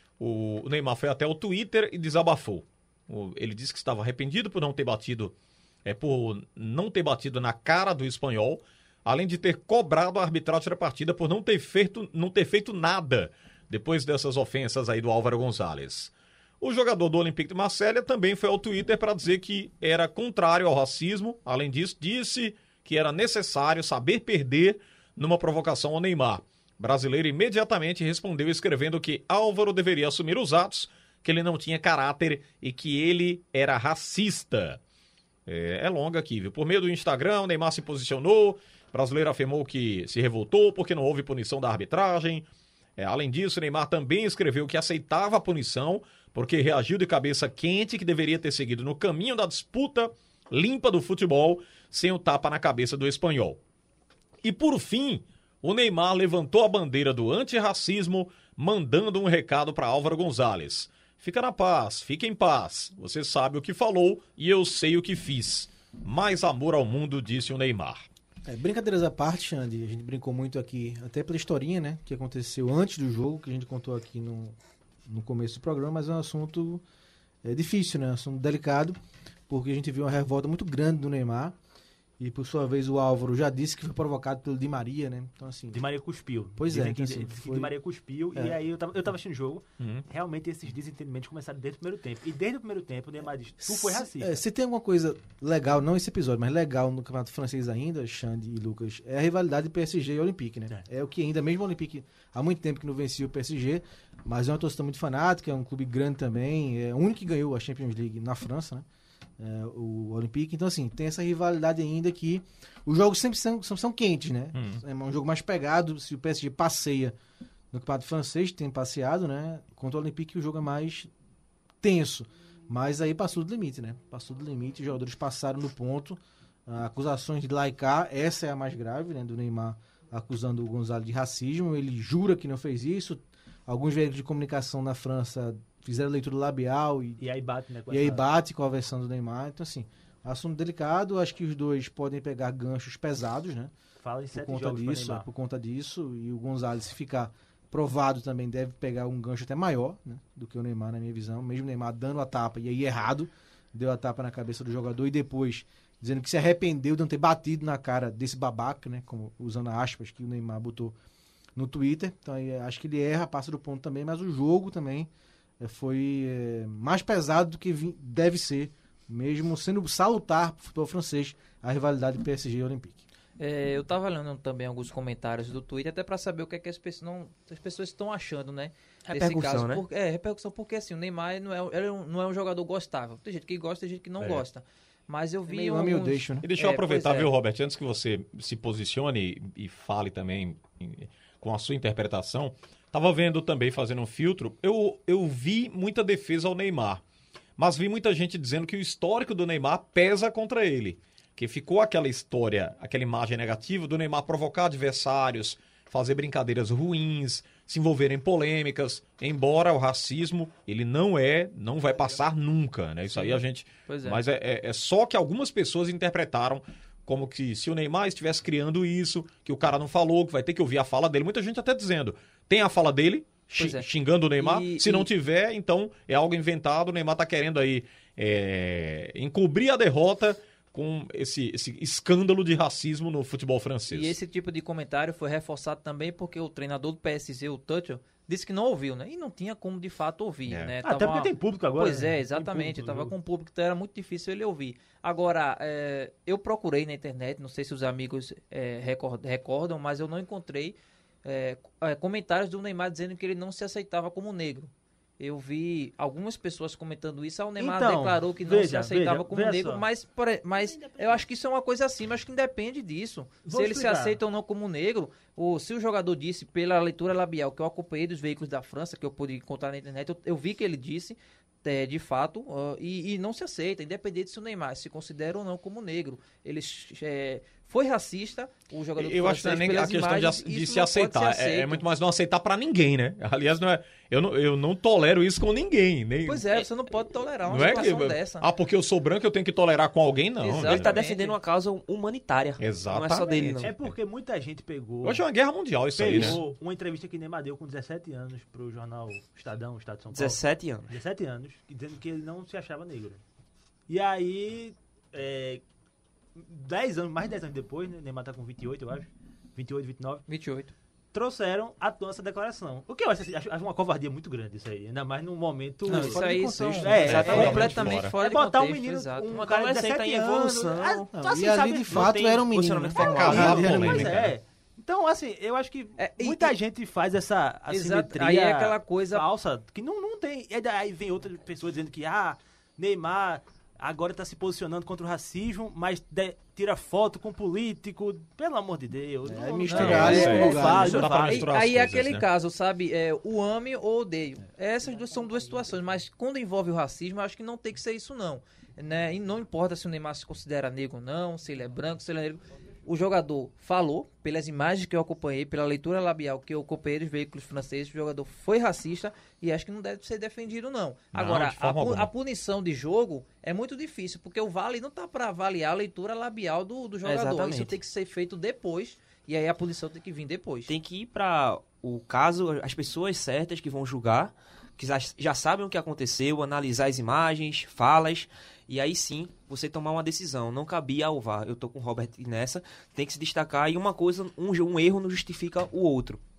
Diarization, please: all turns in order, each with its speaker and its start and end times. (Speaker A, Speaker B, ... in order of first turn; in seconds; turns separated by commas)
Speaker A: 0.2-5.3, Speaker A: 5.8-34.8, Speaker A: 35.5-53.6, Speaker A: 54.4-68.0, Speaker B: 68.5-74.6, Speaker B: 75.1-76.8, Speaker B: 77.4-79.0, Speaker B: 79.5-81.6, Speaker B: 82.2-85.9, Speaker C: 85.7-94.4, Speaker B: 86.6-87.7, Speaker A: 89.8-90.0, Speaker B: 93.6-108.8, Speaker B: 109.4-117.2, Speaker A: 114.5-114.8, Speaker B: 117.7-121.1, Speaker B: 121.8-137.2, Speaker C: 137.2-138.2, Speaker B: 137.9-143.7, Speaker C: 144.0-145.3, Speaker B: 144.3-160.9, Speaker B: 161.6-165.1, Speaker B: 165.6-173.0, Speaker D: 173.4-187.3, Speaker E: 179.1-179.8, Speaker A: 184.2-184.4, Speaker B: 185.5-186.5, Speaker A: 186.4-197.0, Speaker A: 197.6-234.2, Speaker D: 213.1-214.2, Speaker D: 223.6-225.1, Speaker D: 233.9-281.9, Speaker A: 240.5-240.7, Speaker C: 240.8-243.1, Speaker C: 257.6-259.9, Speaker C: 263.4-264.2, Speaker A: 279.0-286.7, Speaker D: 286.2-288.5, Speaker A: 287.4-291.0, Speaker D: 290.4-291.4, Speaker E: 290.6-293.7, Speaker A: 292.6-293.9, Speaker C: 293.4-295.2, Speaker A: 295.0-296.4, Speaker C: 295.9-303.2, Speaker E: 300.1-301.0, Speaker C: 303.9-305.6, Speaker C: 306.4-310.2, Speaker D: 310.3-310.7, Speaker C: 311.1-322.5, Speaker D: 315.9-319.3, Speaker A: 316.9-318.2, Speaker E: 317.0-317.7, Speaker E: 319.3-321.1, Speaker B: 321.1-324.3, Speaker E: 322.5-323.7, Speaker A: 323.0-324.3, Speaker C: 323.0-341.5, Speaker D: 326.0-326.6, Speaker D: 327.7-329.3, Speaker B: 339.2-341.1, Speaker D: 339.7-370.7, Speaker A: 339.8-342.3, Speaker A: 361.1-362.1, Speaker E: 367.0-367.8, Speaker E: 370.7-386.2